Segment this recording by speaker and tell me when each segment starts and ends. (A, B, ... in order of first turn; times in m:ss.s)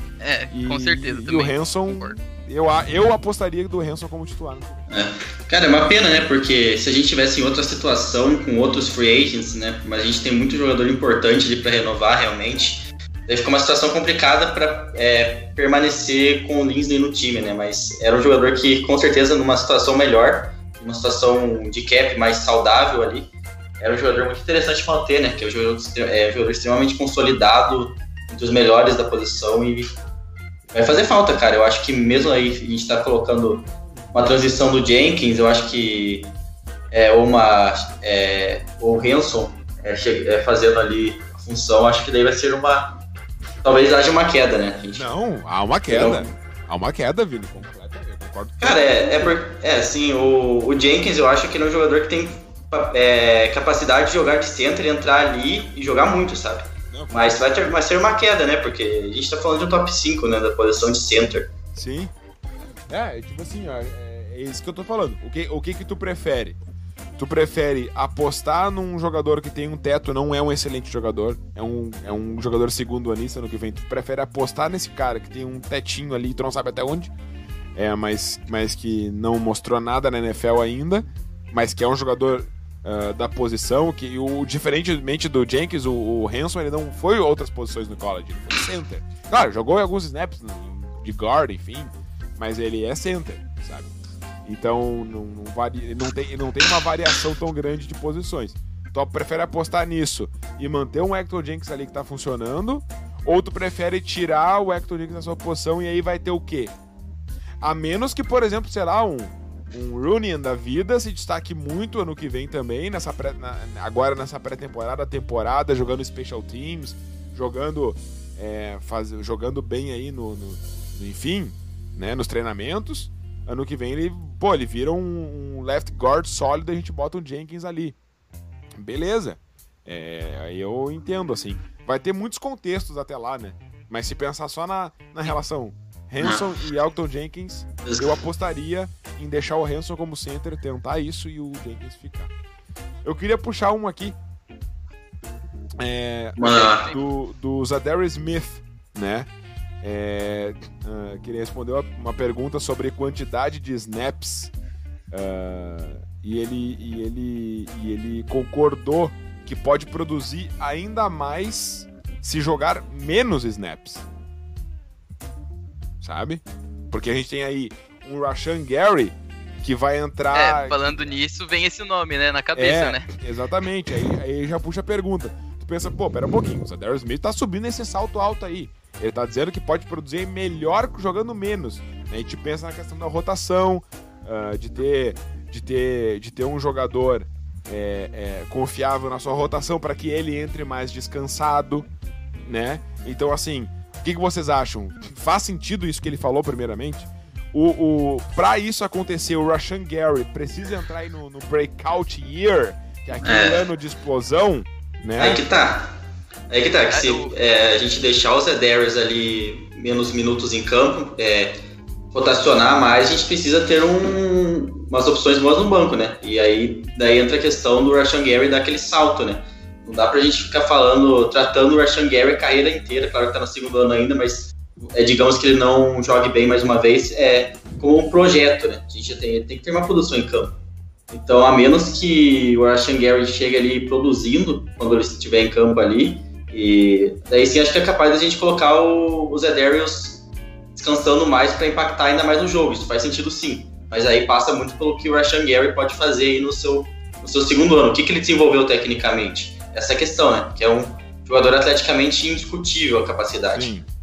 0:00.2-0:02.2 A
0:00.5-0:04.8 B
0:04.9-0:29.9 C
0:30.7-0:36.4 C
0:36.9-0:43.0 C
0:43.6-0:45.1 C
0:44.9-0:49.4 B
0:45.9-0:46.3 C
0:48.6-1:01.5 C
0:56.9-0:57.4 B
1:01.8-1:02.1 B
1:02.9-1:06.6 B
1:07.2-1:17.1 B
1:17.8-1:33.9 B
1:34.4-1:46.7 B
1:47.6-2:08.0 B
2:08.8-2:22.3 B
2:16.2-2:16.5 C
2:17.8-2:18.2 C
2:23.0-2:24.2 B
2:25.8-2:29.3 B
2:26.4-2:26.9 C
2:29.8-2:34.5 B
2:35.1-2:44.1 B
2:46.0-2:50.8 B
2:50.3-2:53.1 A
2:52.6-3:11.9 B
3:12.4-3:25.4 B
3:23.2-3:23.7 C
3:25.2-3:26.0 C
3:26.5-3:31.6 C
3:26.9-3:27.4 A
3:32.1-3:50.6 C
3:51.1-4:13.7 C
4:13.5-4:13.9 B